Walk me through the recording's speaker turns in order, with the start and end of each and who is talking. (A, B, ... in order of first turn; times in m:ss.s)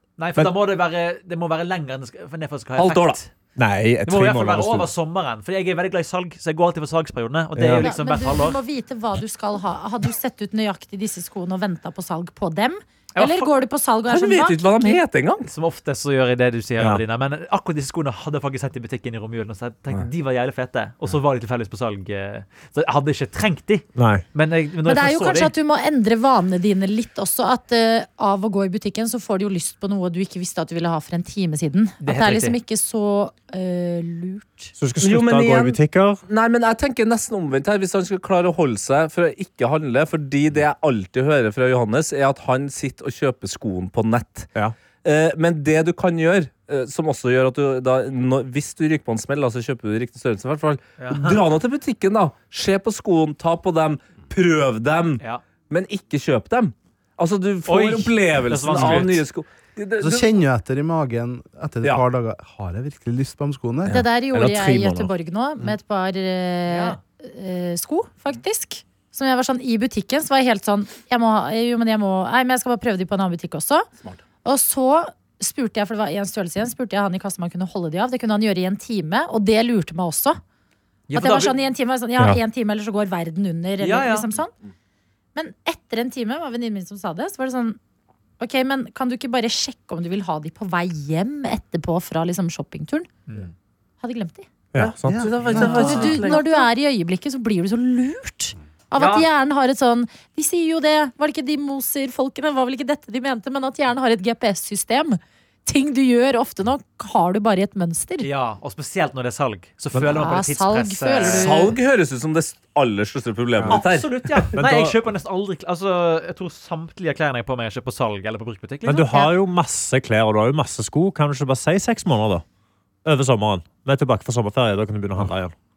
0:00.2-0:03.3 A
0:02.8-0:03.2 B
0:03.6-0:04.9 C
0:04.1-0:08.6 A
0:07.6-0:07.9 C
0:07.7-0:15.0 D
0:13.2-0:13.5 A
0:14.1-0:15.5 B
0:15.4-0:25.5 A
0:24.0-0:24.2 C
0:24.8-0:34.7 D
0:32.0-0:32.6 A
0:34.8-0:36.2 C
0:35.0-0:44.5 B
0:45.0-1:00.3 B
0:51.0-0:51.4 A
0:57.7-0:59.2 A
1:00.0-1:04.0 E
1:03.9-1:13.9 D
1:04.3-1:05.1 C
1:06.7-1:07.0 A
1:14.4-1:20.4 D
1:21.1-1:21.5 A
1:21.1-1:24.5 D
1:23.8-1:24.3 A
1:25.4-1:27.8 D
1:28.4-1:33.1 D
1:34.0-1:34.5 D
1:34.7-1:36.0 C
1:34.8-1:36.6 B
1:35.1-1:35.8 E
1:35.5-1:36.4 A
1:35.6-1:48.3 D
1:39.0-1:39.3 A
1:48.2-1:51.7 A
1:50.1-1:51.7 D
1:51.2-1:54.1 B
1:53.6-1:55.0 C
1:53.7-1:59.2 A
1:58.8-2:02.4 C
2:03.0-2:05.5 C